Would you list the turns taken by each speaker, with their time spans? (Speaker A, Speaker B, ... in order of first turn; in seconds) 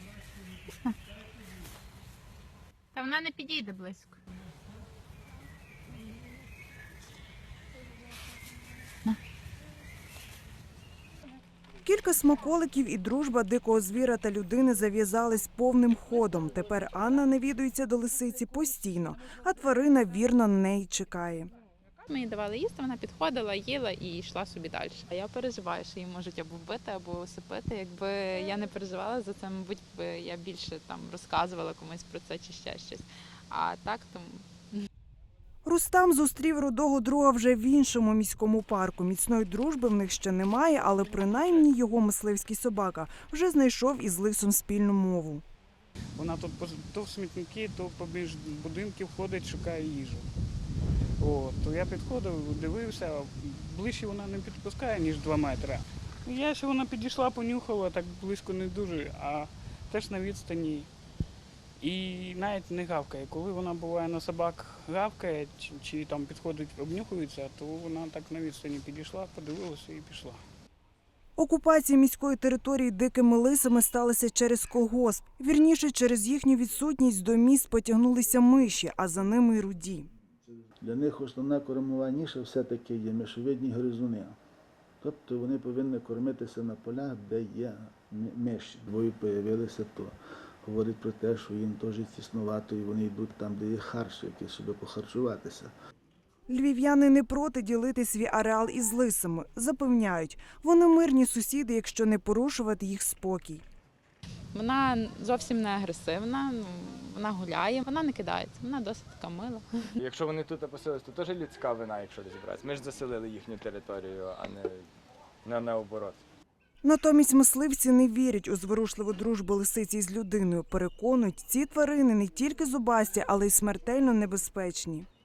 Speaker A: 2.9-4.2, 22.1-34.8, 104.5-109.7
Speaker B: 11.8-21.5, 35.6-45.4, 71.4-80.1, 96.5-103.6, 116.8-125.1
Speaker C: 46.2-50.3, 51.2-60.9, 61.8-70.4
Speaker D: 80.8-84.3, 85.0-95.7
Speaker E: 110.0-114.9, 115.4-116.2